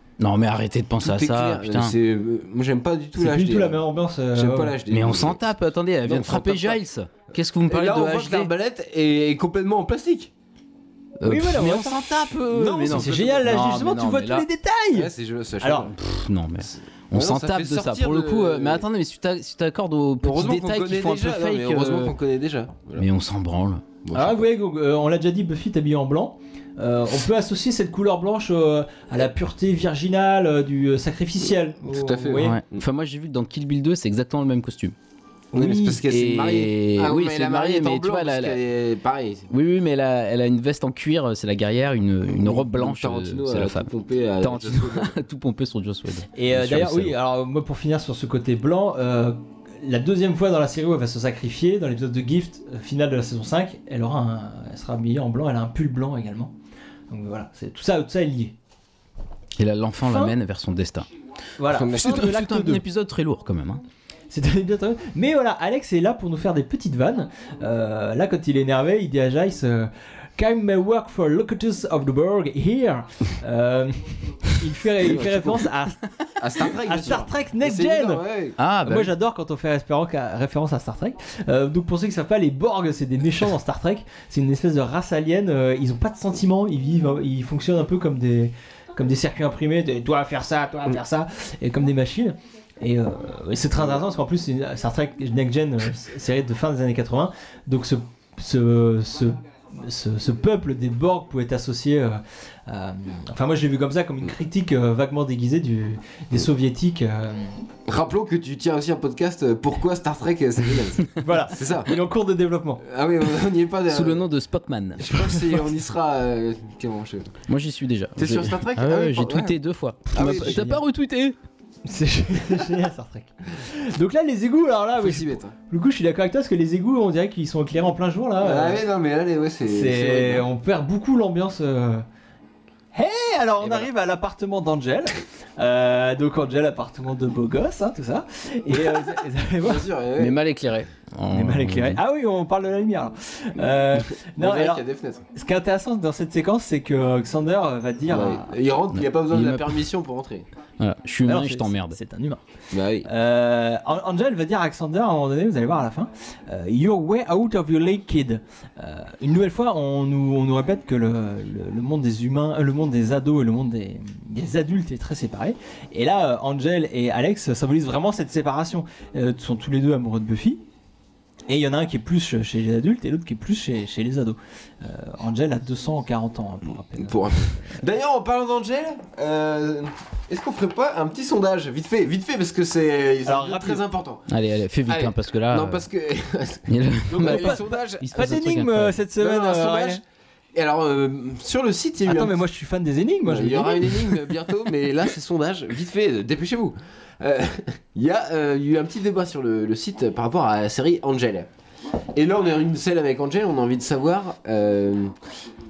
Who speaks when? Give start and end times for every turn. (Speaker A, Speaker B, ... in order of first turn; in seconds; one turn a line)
Speaker A: 0.2-1.9
Speaker B: 1.0-5.4
Speaker C: 3.1-4.8
Speaker A: 4.9-8.5
Speaker B: 6.0-6.8
Speaker B: 7.7-10.3
Speaker A: 11.2-14.4
Speaker C: 11.2-15.9
Speaker B: 12.5-13.5
Speaker B: 14.9-16.0
Speaker A: 16.0-22.1
Speaker B: 16.6-18.9
Speaker B: 20.2-23.1
Speaker A: 22.9-23.8
Speaker B: 24.0-24.4
Speaker C: 24.1-32.6
Speaker B: 31.8-32.8
Speaker A: 32.3-34.9
Speaker C: 35.5-36.0
Speaker B: 35.5-39.5
Speaker A: 36.0-38.6
Speaker A: 39.5-47.1
Speaker B: 42.3-45.1
Speaker C: 46.3-56.5
Speaker C: 57.1-58.5
Speaker A: 59.6-61.1
Speaker C: 60.0-60.3
Speaker C: 61.6-62.8
Speaker B: 61.7-62.3
Speaker A: 61.9-63.8
Speaker C: 64.3-76.0
Speaker B: 75.0-75.7
Speaker B: 76.4-78.6
Speaker C: 76.6-78.2
Speaker A: 78.6-79.1
Speaker C: 78.8-107.6
Speaker B: 107.8-111.9
Speaker C: 111.2-112.8
Speaker B: 112.8-114.3
Speaker A: 113.9-115.4
Speaker B: 115.0-117.4
Speaker A: 117.5-121.3
Speaker B: 118.2-119.5
Speaker B: 120.1-120.7
Speaker C: 120.1-120.8
Speaker C: 121.8-128.8
Speaker B: 125.0-125.5
Speaker B: 128.4-130.5
Speaker C: 129.7-132.0
Speaker C: 132.9-139.9
Speaker B: 139.6-140.4
Speaker A: 140.2-142.0
Speaker C: 141.3-148.5
Speaker B: 144.1-145.2
Speaker B: 148.1-150.5
Speaker A: 148.9-149.8
Speaker A: 150.8-152.0
Speaker C: 151.2-152.4
Speaker B: 152.7-153.1
Speaker C: 153.0-170.6
Speaker C: 171.5-177.8
Speaker B: 177.0-184.3
Speaker C: 183.2-183.8
Speaker A: 184.3-185.8
Speaker B: 184.9-188.3
Speaker A: 186.7-189.0
Speaker C: 187.1-190.0
Speaker B: 189.2-190.0
Speaker B: 190.5-192.4
Speaker C: 192.0-194.1
Speaker B: 193.2-201.5
Speaker B: 202.1-205.2